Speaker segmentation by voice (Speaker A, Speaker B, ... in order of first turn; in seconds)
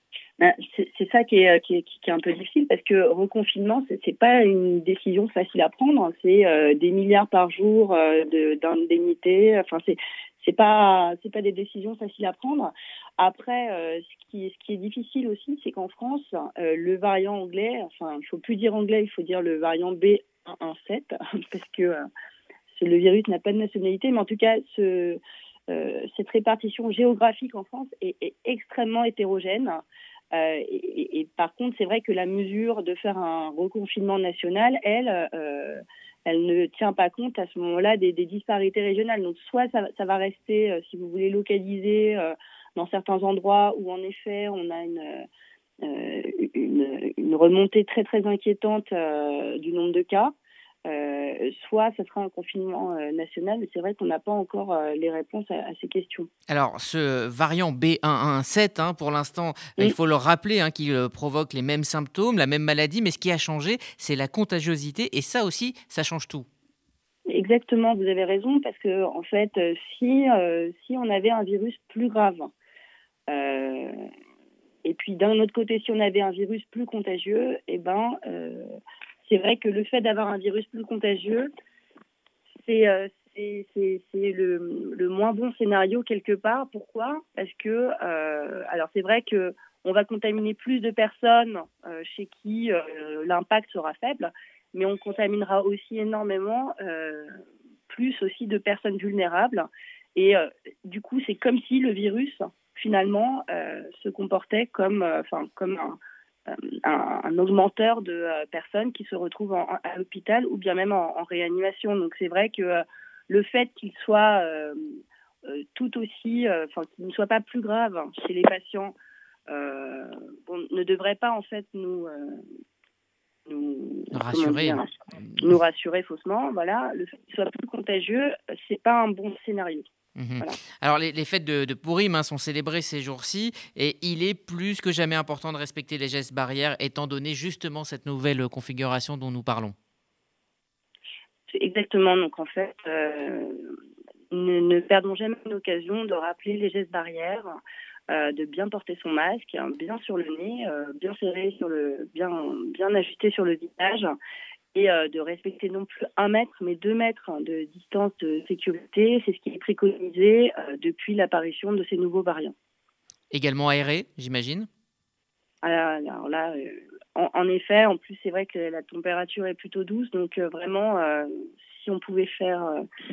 Speaker A: 0.4-22.1, 22.7-45.2, 45.8-50.3, 50.9-56.3, 67.3-72.5, 73.3-74.0, 74.8-78.7, 79.2-81.5, 82.6-118.9, 119.5-122.4, 123.5-129.8, 141.5-143.7, 144.3-147.6, 148.1-154.1, 154.7-162.5, 165.6-172.8
Speaker B: 56.5-66.5, 124.1-124.8, 130.2-139.7, 163.3-164.7